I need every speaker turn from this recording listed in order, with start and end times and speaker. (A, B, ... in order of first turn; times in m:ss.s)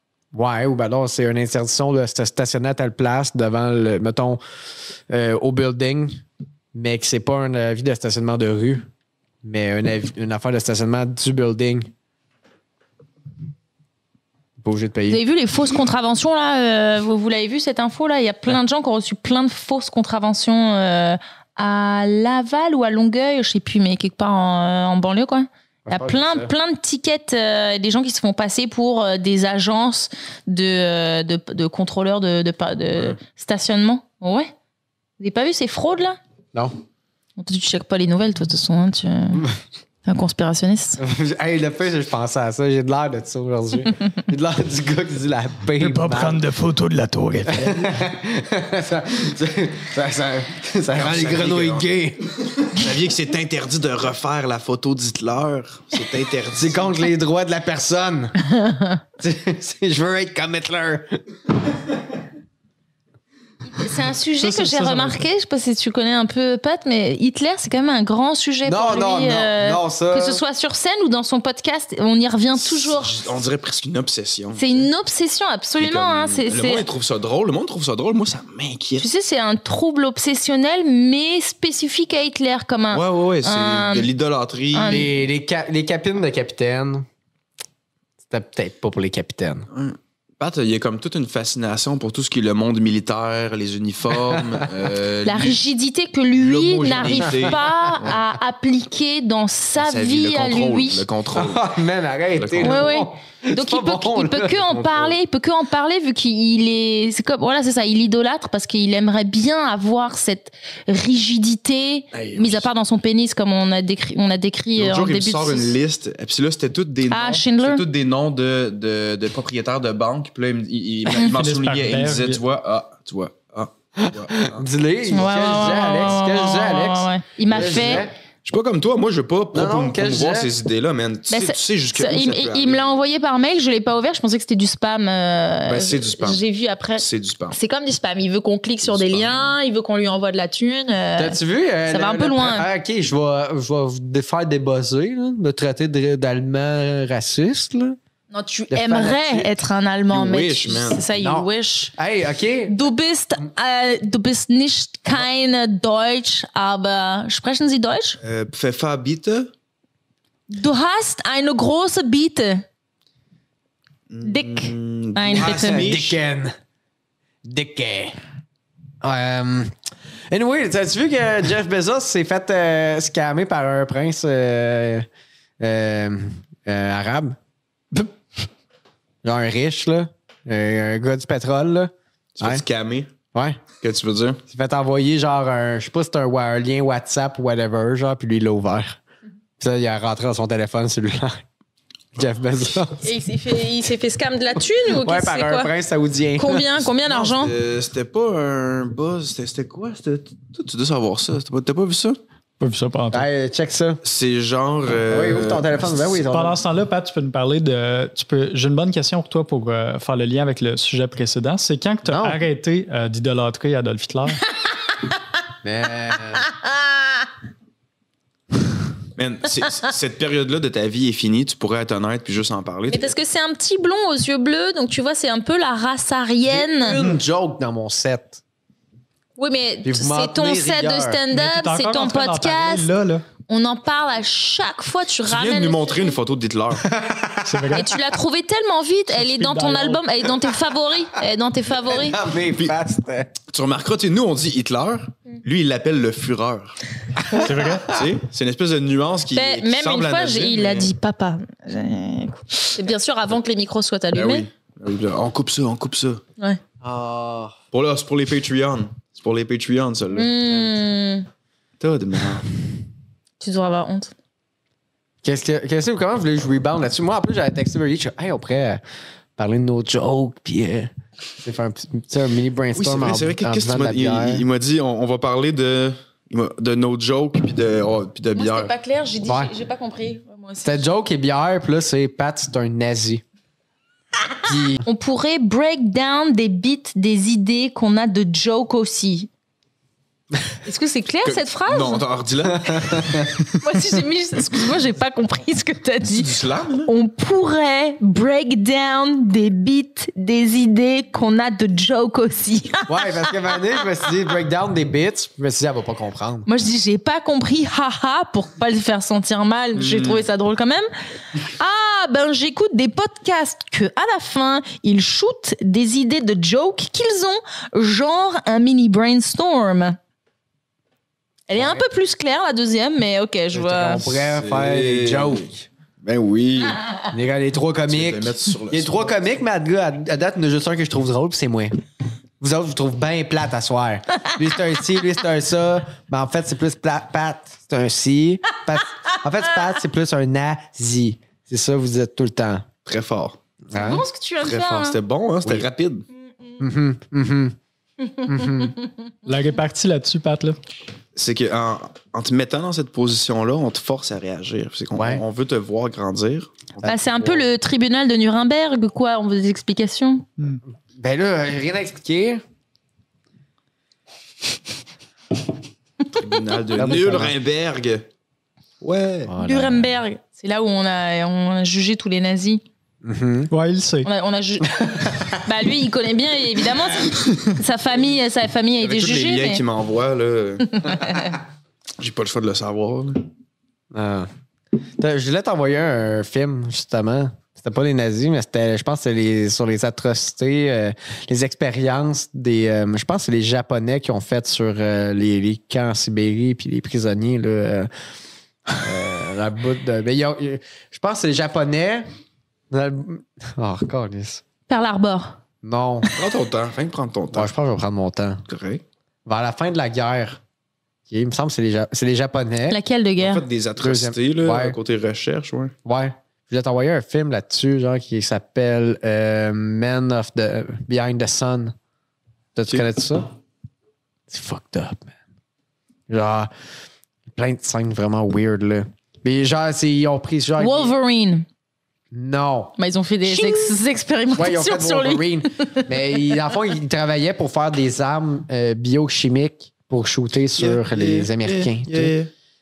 0:00.3-0:04.4 A
0:05.1-0:06.2 A
0:06.7-0:08.9 A
0:09.4-0:11.9 A
0:14.6-0:15.2 A
0:15.1-0:34.5 B
0:25.9-0:26.5 A
0:35.2-0:36.2 B
0:37.4-0:39.5 B
0:40.0-0:41.0 B
0:41.0-0:46.4 A
0:45.8-0:47.7 C
0:47.5-0:52.3 A
0:50.9-0:51.9 D
0:52.4-0:57.0 D
0:56.5-0:58.4 A
0:58.5-0:59.0 B
0:59.2-1:01.2 A
1:03.7-1:13.2 B
1:04.4-1:05.2 C
1:08.6-1:10.4 A
1:12.6-1:14.9 D
1:14.6-1:16.9 B
1:15.8-1:19.1 D
1:19.0-1:24.1 B
1:22.9-1:25.1 D
1:24.7-1:25.1 B
1:24.9-1:27.1 A
1:28.3-1:29.7 A
1:29.7-1:35.6 D
1:34.3-1:34.7 A
1:35.2-1:41.0 B
1:36.4-1:38.1 D
1:39.8-1:41.7 D
1:41.3-1:44.7 A
1:42.4-1:42.9 D
1:42.6-1:55.7 B
1:44.7-1:45.1 D
1:52.1-1:52.7 D
1:54.8-2:04.6 D
1:57.1-1:57.8 B
2:01.2-2:02.4 C
2:04.0-2:08.1 A
2:05.1-2:08.0 B
2:07.5-2:12.9 D
2:09.5-2:10.5 A
2:11.3-2:21.4 B
2:15.7-2:16.4 D
2:17.0-2:17.6 D
2:18.9-2:19.6 D
2:21.2-2:28.0 A
2:21.9-2:22.7 B
2:28.3-2:31.9 B
2:28.7-2:29.5 A
2:30.1-2:31.0 D
2:31.2-2:32.7 A
2:32.7-2:38.2 B
2:38.2-2:39.5 D
2:40.5-2:42.6 B
2:44.1-2:46.2 D
2:44.2-2:45.9 B
2:45.4-2:46.5 A
2:47.4-2:48.2 A
2:49.0-2:49.7 A
2:50.3-2:55.1 A
2:55.6-2:57.4 A
2:59.2-3:02.6 A
3:02.4-3:03.1 D
3:03.3-3:03.6 A
3:03.8-3:04.4 D
3:04.5-3:09.0 A
3:09.6-3:11.4 A
3:12.2-3:13.1 A
3:13.0-3:15.7 B
3:14.9-3:16.7 A
3:16.4-3:17.6 B
3:17.0-3:22.2 D
3:22.6-3:23.3 C
3:23.1-3:24.0 A
3:24.0-3:25.9 D
3:25.1-3:26.6 A
3:26.3-3:34.4 C
3:32.0-3:32.4 A
3:35.6-3:36.5 A
3:39.2-3:43.1 D
3:42.9-3:47.0 B
3:46.5-3:48.4 A
3:49.4-3:52.9 B
3:49.8-3:51.2 A
3:51.3-3:53.2 C
3:53.5-3:56.2 B
3:55.3-3:56.9 D
3:56.8-3:57.8 A
3:57.4-3:57.9 C
3:57.7-4:02.2 B
3:59.1-4:00.0 C
4:01.9-4:03.3 A
4:03.5-4:06.8 D
4:07.2-4:08.1 A
4:07.4-4:07.9 C
4:07.9-4:10.9 D
4:09.3-4:14.5 B
4:14.1-4:16.2 D
4:16.8-4:17.5 A
4:17.7-4:20.3 D
4:20.1-4:21.3 B
4:21.8-4:22.5 D
4:23.4-4:24.1 B
4:25.2-4:28.8 A
4:29.4-4:30.9 A
4:31.4-4:34.4 A
4:32.8-4:38.7 D
4:38.4-4:40.8 B
4:39.2-4:39.5 A
4:40.6-4:43.2 A
4:44.4-4:44.8 A
4:44.8-4:49.3 B
4:50.6-4:52.0 B
4:51.2-4:53.5 D
4:52.5-4:53.3 A
4:53.5-5:03.6 B
4:56.1-4:56.9 D
5:02.9-5:06.5 A
5:06.5-5:10.9 B
5:09.8-5:10.2 D
5:11.4-5:20.0 B
5:21.5-5:24.1 B
5:21.6-5:21.8 A
5:23.5-5:25.6 A
5:24.0-5:26.8 D
5:27.1-5:31.7 A
5:27.9-5:29.2 D
5:32.4-5:42.7 A
5:42.9-5:43.4 D
5:43.7-5:44.0 A
5:43.7-5:45.0 B
5:44.4-5:46.1 D
5:46.6-5:47.6 A
5:48.0-5:48.9 B
5:48.3-5:48.8 A
5:49.3-5:50.6 C
5:51.2-5:57.3 D
5:55.0-5:55.2 A
5:56.8-6:00.3 B
5:56.8-5:57.4 A
6:01.0-6:02.4 A
6:06.1-6:08.0 D
6:06.8-6:07.4 A
6:08.8-6:09.3 D
6:09.3-6:09.9 A
6:09.4-6:12.6 B
6:13.0-6:13.5 A
6:13.5-6:14.1 C
6:14.0-6:19.6 B
6:14.9-6:15.3 A
6:18.8-6:21.2 D
6:20.8-6:21.4 B
6:22.0-6:23.2 D
6:23.9-6:24.3 A
6:25.0-6:37.9 A
6:38.7-6:42.1 A
6:42.7-6:44.4 A
6:44.7-6:45.4 B
6:45.6-6:46.1 A
6:46.2-6:47.5 D
6:47.3-6:48.4 A
6:48.5-6:48.8 D
6:49.3-6:50.4 A
6:51.1-6:52.8 A
6:52.7-6:53.4 B
6:53.2-6:55.7 D
6:53.8-6:54.8 A
6:55.8-7:01.7 A
7:02.6-7:03.3 A
7:04.3-7:05.1 A
7:06.1-7:06.5 A
7:07.3-7:10.9 A
7:10.6-7:11.5 B
7:12.1-7:13.8 A
7:12.8-7:15.9 B
7:14.3-7:22.1 A
7:20.6-7:22.3 D